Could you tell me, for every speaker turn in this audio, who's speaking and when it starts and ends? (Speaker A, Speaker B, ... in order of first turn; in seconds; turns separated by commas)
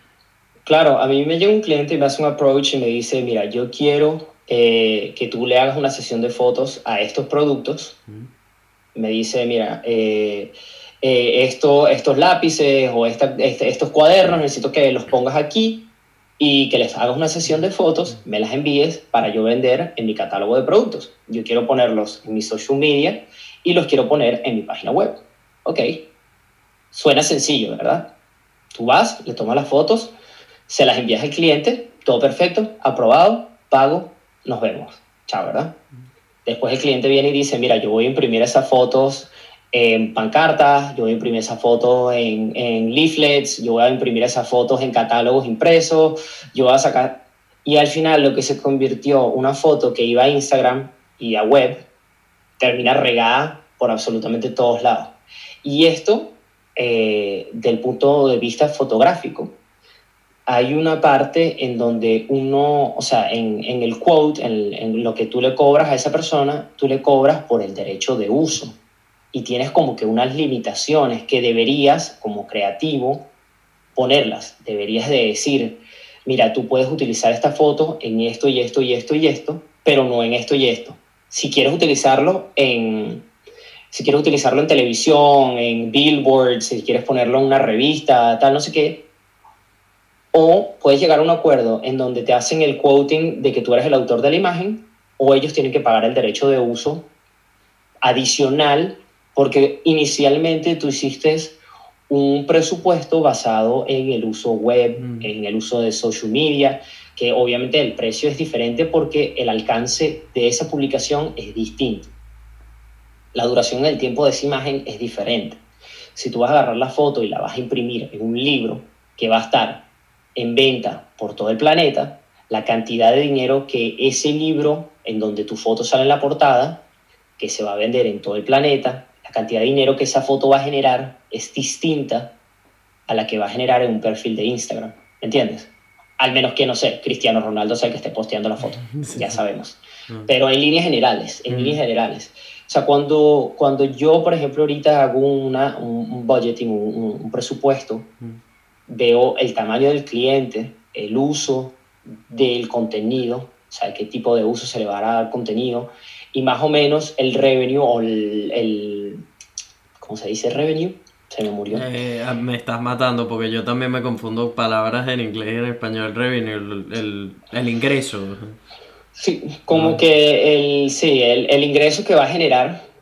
Speaker A: 0.7-7.9, Speaker A: 8.9-15.8, Speaker A: 16.4-26.0, Speaker A: 26.9-28.1, Speaker A: 28.7-30.1, Speaker A: 30.7-35.7, Speaker A: 36.4-51.8, Speaker A: 52.6-55.1, Speaker A: 55.6-59.5, Speaker A: 60.5-68.7, Speaker A: 69.3-73.2, Speaker A: 73.9-83.2, Speaker A: 83.9-89.0, Speaker A: 90.3-97.0, Speaker A: 98.0-101.5, Speaker A: 102.1-112.1, Speaker B: 105.0-105.3, Speaker A: 113.3-115.6, Speaker A: 116.1-119.8, Speaker A: 120.3-126.8, Speaker A: 127.4-132.3, Speaker A: 133.1-148.0, Speaker B: 138.8-139.4, Speaker B: 141.5-141.8, Speaker A: 148.9-151.8, Speaker A: 152.3-159.2, Speaker A: 160.0-161.8, Speaker B: 161.7-168.6, Speaker A: 169.2-172.8, Speaker B: 169.7-170.0